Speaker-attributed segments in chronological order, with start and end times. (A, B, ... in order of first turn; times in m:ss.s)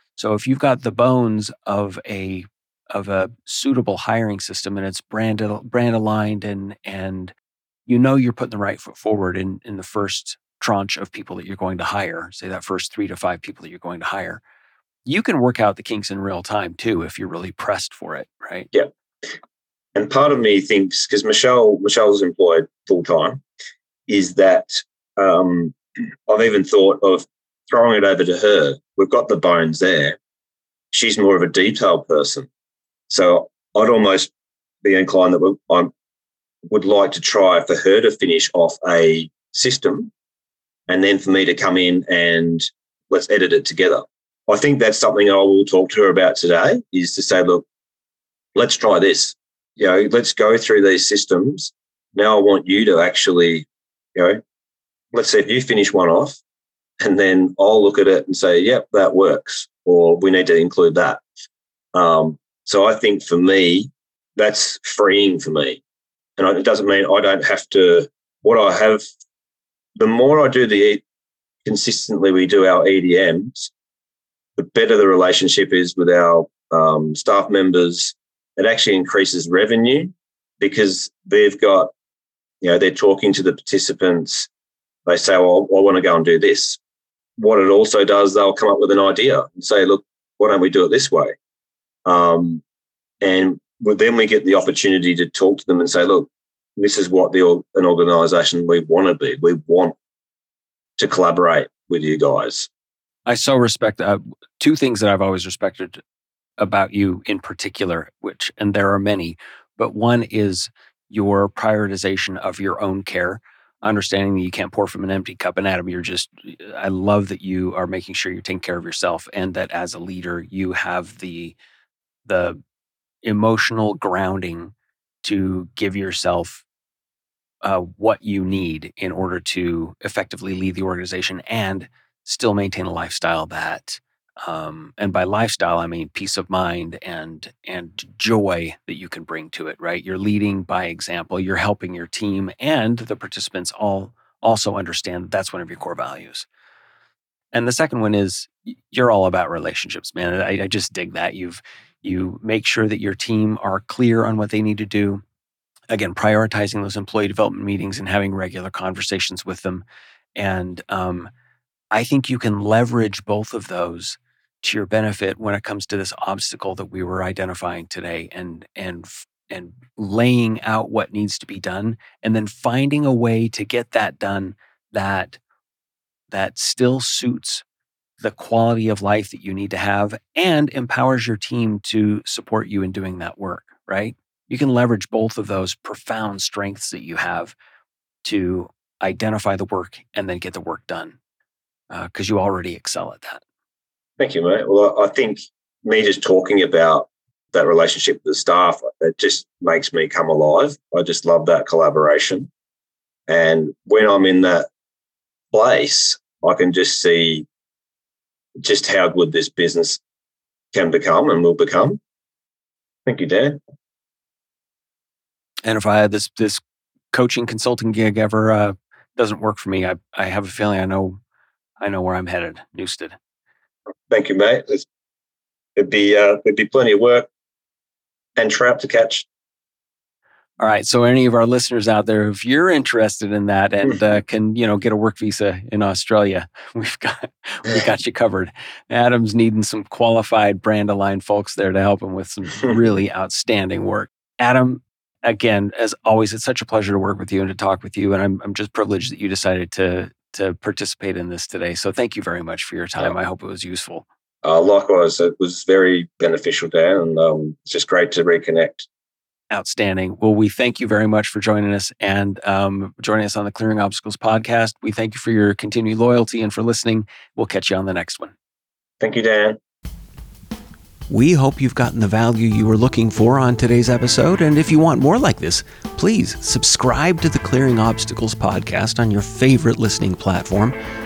0:00.2-0:07.3 A
0:07.9-0:14.4 A
0:15.0-0:18.7 A
0:19.9-0:23.4 B
0:24.1-0:25.8 B
0:26.3-0:30.2 B
0:30.9-0:32.5 B
0:33.1-0:34.3 B
0:34.8-0:35.9 B
0:36.7-0:40.1 B
0:40.9-0:47.6 B
0:48.5-0:54.4 B
0:55.1-0:56.4 B
0:57.0-1:01.2 B
1:01.9-1:05.8 B
1:06.4-1:09.0 B
1:10.0-1:11.0 B
1:11.6-1:13.7 B
1:14.6-1:21.9 B
1:22.6-1:24.5 B
1:25.0-1:26.8 B
1:27.4-1:31.4 B
1:32.0-1:32.6 B
1:33.2-1:39.9 B
1:41.0-1:42.7 B
1:43.2-1:46.0 A
1:46.6-2:01.6 A
2:02.2-2:02.6 A
2:03.2-2:06.6 A
2:07.6-2:26.5 A
2:27.5-2:35.2 A
2:35.9-2:39.8 A
2:40.4-2:41.3 A
2:41.9-2:55.4 A
2:56.3-2:57.6 A
2:58.2-3:07.5 A
3:08.2-3:11.2 A
3:11.9-3:13.4 A
3:14.2-3:22.5 B
3:23.3-3:24.7 B
3:25.5-3:27.5 B
3:28.6-3:30.0 B
3:30.7-3:32.0 B
3:33.0-3:33.6 B
3:35.6-3:36.6 A
3:37.1-3:41.2 A
3:41.8-3:43.2 A
3:44.1-3:44.8 B
3:45.8-3:47.3 B
3:48.4-3:49.2 B
3:50.6-4:14.0 A
4:14.4-4:18.9 B
4:19.5-4:28.3 A
4:29.0-4:29.6 B
4:31.1-4:40.7 A